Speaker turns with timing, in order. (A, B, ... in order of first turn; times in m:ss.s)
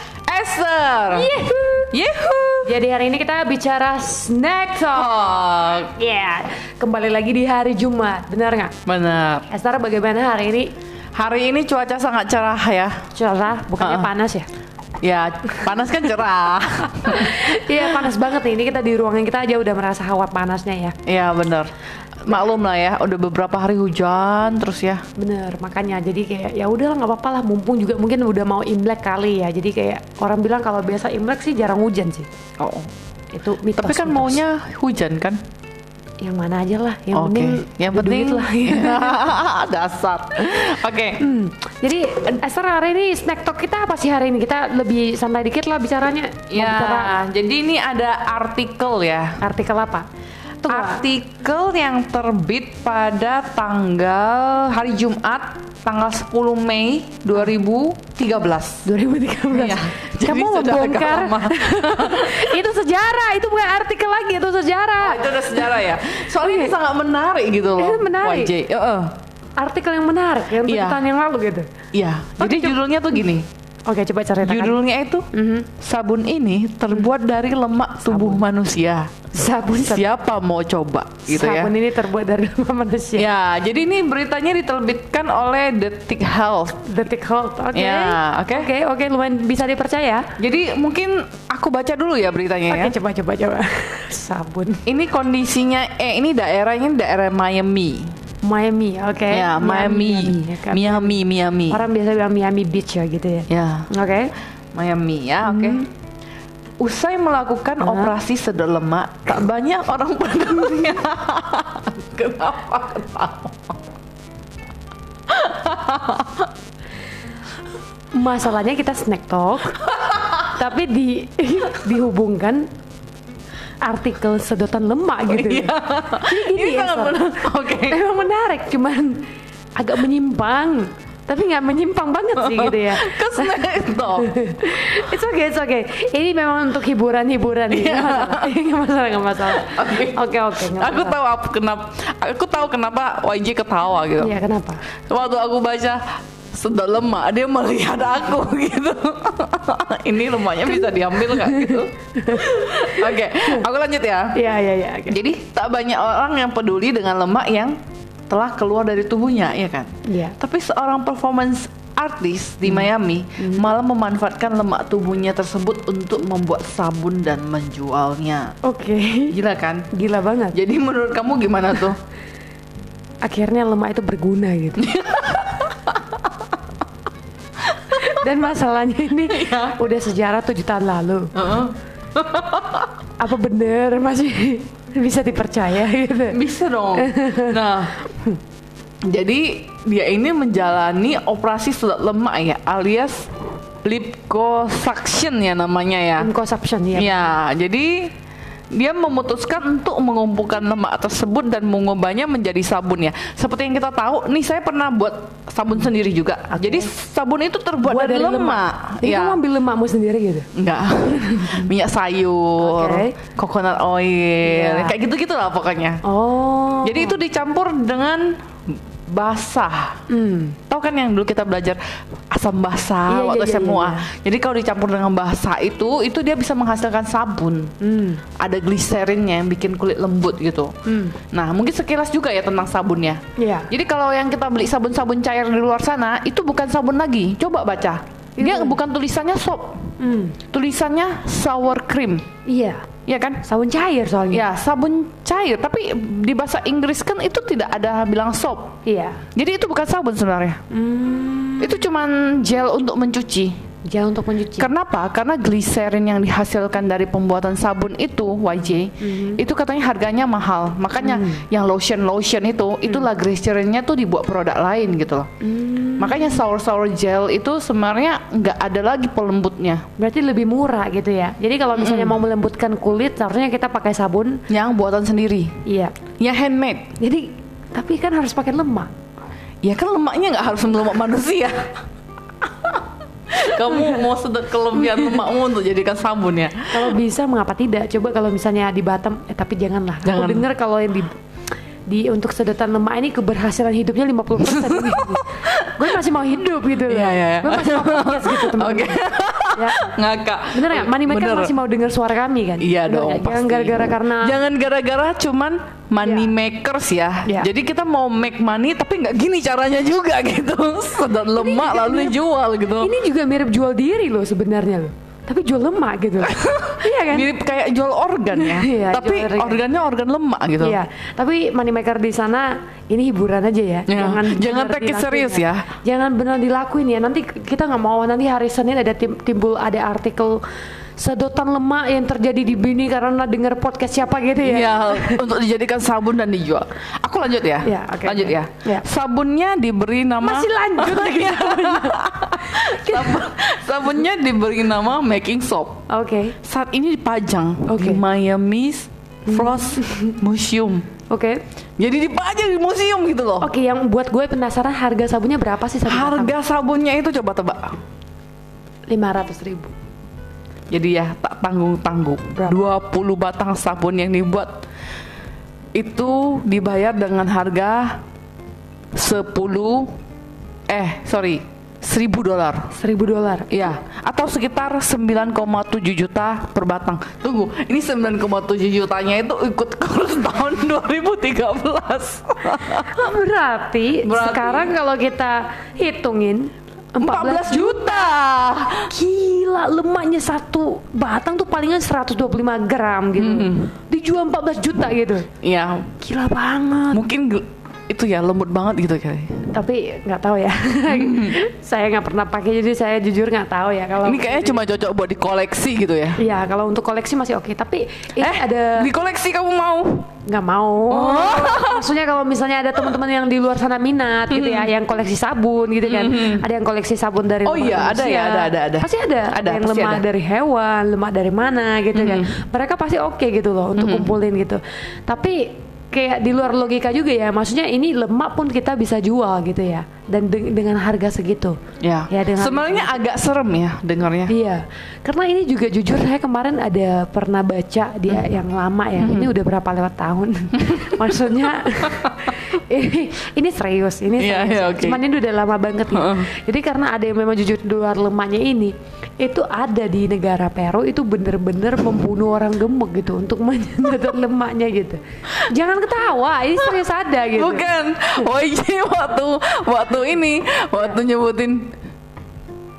0:00.3-0:01.4 A
0:01.1-0:01.9 B
0:01.9-0:02.7 A
0:02.6-0:05.2 B
0:04.9-0:05.9 A
0:05.8-0:08.7 B
0:08.8-0:09.5 A
0:09.5-0:10.7 B
0:11.1-0:13.0 A
0:13.1-0:14.5 B
0:13.8-0:14.1 A
0:15.0-0:18.0 A
0:17.1-0:21.0 B
0:21.0-0:21.7 A
0:22.2-0:25.0 A
0:25.2-0:32.3 B
0:32.6-0:32.9 A
0:33.3-0:34.4 B
0:33.7-0:35.4 A
0:36.2-0:39.3 B
0:37.1-0:41.2 A
0:41.2-0:47.2 B
0:46.5-0:49.4 A
0:49.4-0:50.0 B
0:50.6-0:58.8 A
0:50.6-0:51.1 B
0:58.8-1:06.8 B
0:59.5-1:02.6 A
1:05.0-1:09.1 A
1:07.8-1:08.5 B
1:09.6-1:11.7 B
1:10.6-1:11.0 A
1:11.9-1:13.5 A
1:12.4-1:12.8 B
1:13.9-1:14.8 B
1:14.4-1:15.3 A
1:15.3-1:15.7 B
1:15.8-1:21.7 A
1:18.1-1:18.4 B
1:19.3-1:20.1 B
1:21.3-1:23.3 B
1:23.2-1:26.9 A
1:26.8-1:30.3 B
1:27.7-1:28.7 A
1:30.4-1:33.0 A
1:32.7-1:34.8 B
1:34.8-1:38.2 A
1:38.4-1:41.2 B
1:39.3-1:41.8 A
1:41.7-1:44.3 B
1:43.5-1:43.9 A
1:44.7-1:45.9 A
1:45.4-1:45.8 B
1:46.8-1:53.7 A
1:47.8-1:48.1 B
1:55.3-1:56.5 A
1:58.1-2:02.7 B
2:03.8-2:21.2 B
2:05.3-2:08.0 A
2:12.4-2:14.3 A
2:17.7-2:18.5 A
2:19.5-2:24.3 A
2:24.2-2:24.8 B
2:25.1-2:34.4 A
2:30.8-2:33.6 B
2:34.3-2:35.2 B
2:35.1-2:48.6 A
2:40.0-2:40.4 B
2:43.4-2:43.7 B
2:48.6-2:49.4 B
2:49.3-2:49.9 A
2:49.9-2:50.6 B
2:50.5-2:52.0 A
2:53.2-2:54.9 B
2:54.8-2:56.0 A
2:57.9-3:01.3 B
2:59.3-2:59.8 A
3:01.3-3:02.9 A
3:03.2-3:06.4 B
3:06.3-3:07.9 A
3:06.9-3:08.4 B
3:09.0-3:13.3 A
3:13.8-3:16.3 A
3:16.2-3:17.3 B
3:16.9-3:18.1 A
3:18.7-3:29.4 A
3:26.5-3:26.9 B
3:27.8-3:30.5 B
3:30.5-3:36.0 A
3:31.2-3:31.6 B
3:32.6-3:33.2 B
3:34.4-3:34.9 B
3:36.0-3:37.2 B
3:36.8-3:40.0 A
3:40.1-3:40.6 B
3:40.7-3:47.7 A
3:43.1-3:44.1 B
3:47.8-3:48.2 B
3:48.4-3:50.7 A
3:50.8-3:51.2 B
3:51.3-3:59.9 A
3:53.4-3:53.7 B
3:58.4-3:58.8 B
4:00.0-4:00.4 B
4:00.5-4:02.2 A
4:02.4-4:02.9 B
4:03.1-4:03.4 A
4:03.4-4:04.4 B
4:04.3-4:08.7 A
4:08.9-4:09.2 B
4:09.4-4:10.6 A
4:10.7-4:11.8 B
4:11.6-4:13.6 A
4:13.9-4:14.7 B
4:14.6-4:25.3 A
4:19.0-4:19.4 B
4:21.0-4:21.5 B
4:25.4-4:26.4 B
4:26.0-4:29.8 A
4:30.0-4:34.4 B
4:31.8-4:32.2 A
4:34.5-4:35.6 A
4:35.6-4:36.0 B
4:36.2-4:36.9 A
4:37.0-4:38.9 B
4:39.6-4:41.7 A
4:42.4-4:46.9 A
4:43.6-4:44.1 B
4:44.7-4:45.2 B
4:46.7-4:51.2 B
4:50.0-4:50.5 A
4:51.9-4:59.8 B
4:54.4-4:55.9 A
4:56.9-5:01.5 A
5:00.5-5:04.4 B
5:02.6-5:12.9 A
5:06.0-5:06.3 B
5:11.3-5:12.2 B
5:12.8-5:17.3 B
5:16.2-5:20.8 A
5:18.3-5:19.6 B
5:20.6-5:30.4 B
5:23.9-5:25.6 A
5:31.0-5:35.3 B
5:34.4-5:45.8 A
5:37.6-5:38.8 B
5:40.2-5:43.3 B
5:45.9-5:46.4 B
5:46.4-5:50.8 A
5:47.6-5:48.0 B
5:49.3-5:50.2 B
5:51.1-5:51.4 B
5:51.8-5:53.5 A
5:53.4-5:56.3 B
5:55.8-5:57.8 A
5:58.9-5:59.7 B
6:00.7-6:04.6 A
6:05.7-6:08.0 A
6:08.9-6:09.9 A
6:10.7-6:12.7 A
6:12.7-6:13.7 B
6:13.5-6:23.1 A
6:22.9-6:28.1 B
6:24.0-6:24.7 A
6:27.0-6:28.9 A
6:28.8-6:35.3 B
6:33.2-6:33.7 A
6:35.4-6:35.9 A
6:36.0-6:37.0 B
6:36.9-6:39.5 A
6:39.5-6:44.6 B
6:40.9-6:41.4 A
6:44.0-6:46.2 A
6:46.2-6:48.9 B
6:48.2-6:50.1 A
6:50.2-7:11.6 B
6:50.9-6:51.9 A
6:54.3-6:54.7 A
6:55.8-6:56.4 A
6:57.4-7:00.0 A
7:01.9-7:02.3 A
7:03.8-7:04.1 A
7:11.8-7:14.3 A
7:12.1-7:13.0 B
7:14.3-7:37.7 B
7:19.0-7:19.3 A
7:20.6-7:21.2 A
7:24.2-7:25.0 A
7:25.9-7:26.3 A
7:37.3-7:41.8 A